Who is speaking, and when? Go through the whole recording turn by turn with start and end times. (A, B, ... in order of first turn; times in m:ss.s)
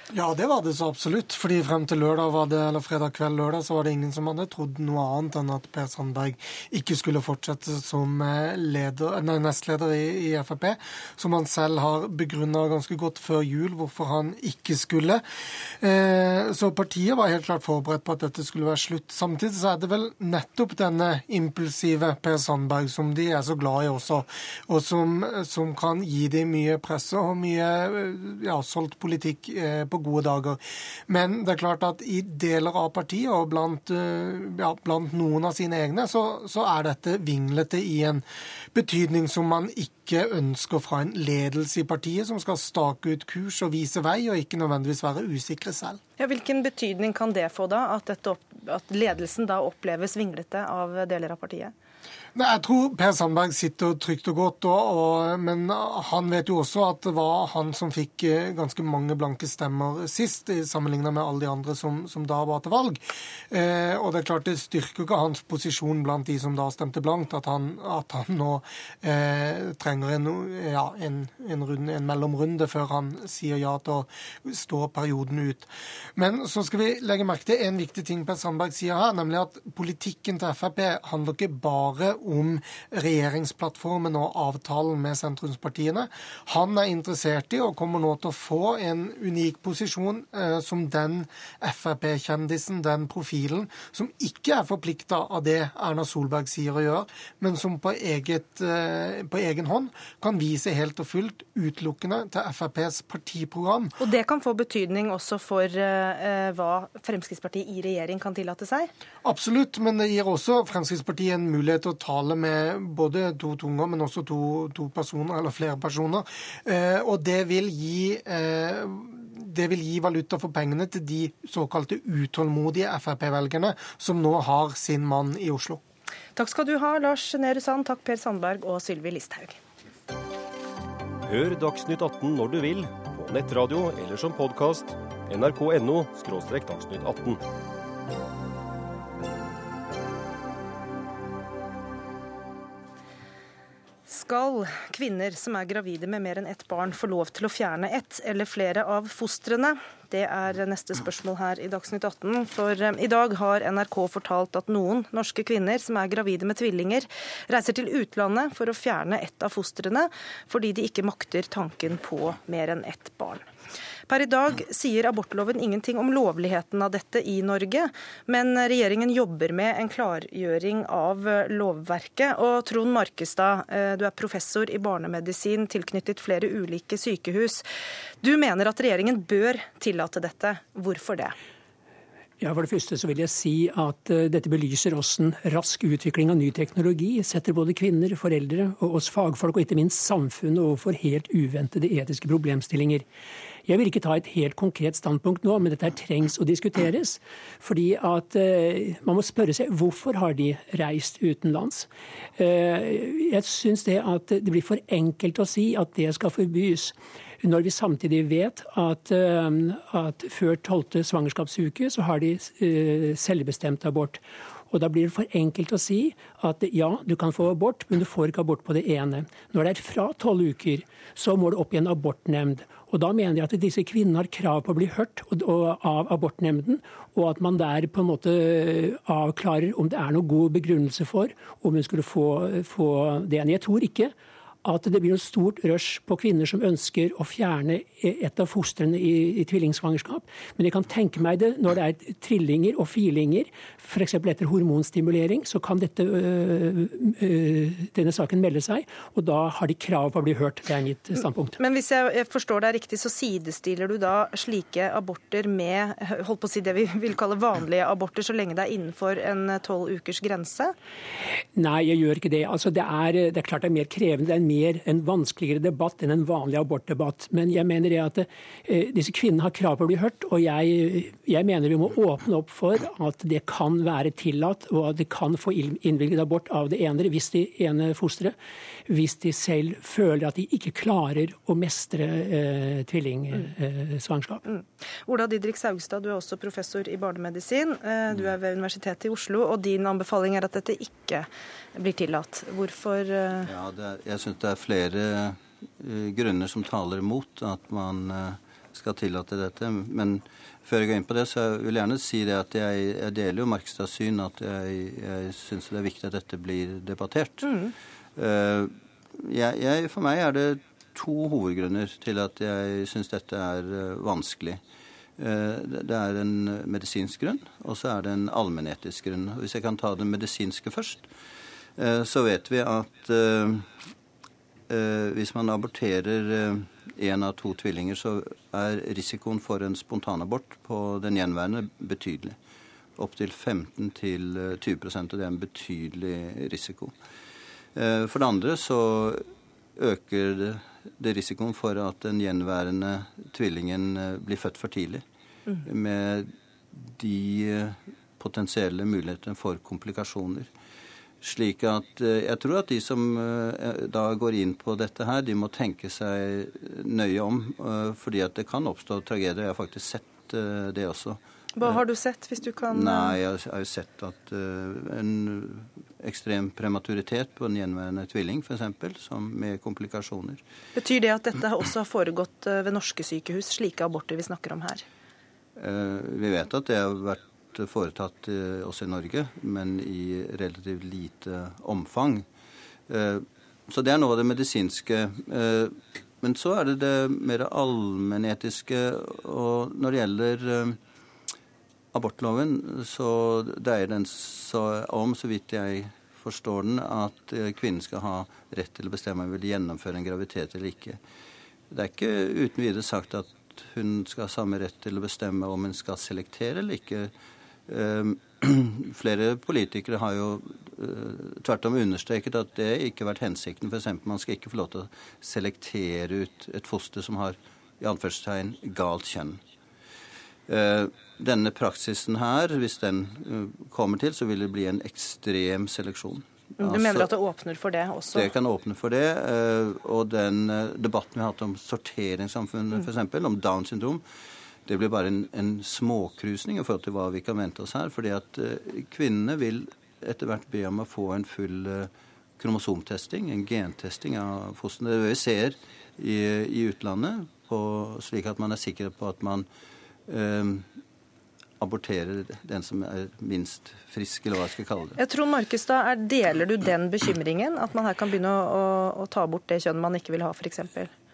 0:00.1-0:15.2 A
0:15.8-0:46.0 A
0:46.2-0:51.7 B
0:52.4-1:43.9 A
1:44.0-1:48.9 B
1:49.2-2:05.8 A
2:06.4-2:09.6 B
2:11.3-2:17.4 C
2:24.1-2:43.4 B
2:44.1-2:57.6 B
2:58.2-3:01.4 B
3:02.4-3:13.0 D
3:13.7-4:11.6 D
4:11.6-4:20.7 B
4:21.6-4:38.4 D
4:38.9-4:44.4 D
4:44.5-4:53.5 B
4:53.4-5:07.6 E
5:07.4-5:07.7 B
5:08.2-5:14.6 E
5:15.2-5:21.1 E
5:21.8-5:23.7 E
5:24.7-5:32.4 E
5:33.0-5:37.0 E
5:37.8-5:45.0 E
5:45.6-5:50.5 E
5:51.2-6:01.8 E
6:01.6-6:03.2 B
6:02.7-6:10.4 E
6:10.8-6:14.8 B
6:15.6-6:22.3 E
6:22.9-6:30.8 E
6:31.9-6:41.0 E
6:41.7-6:47.1 E
6:47.7-6:59.4 E
7:00.5-7:07.1 E
7:06.6-7:08.3 B
7:08.1-7:14.0 E
7:14.7-7:29.5 E
7:30.1-7:30.7 E
7:31.6-7:35.0 E
7:35.0-7:40.9 B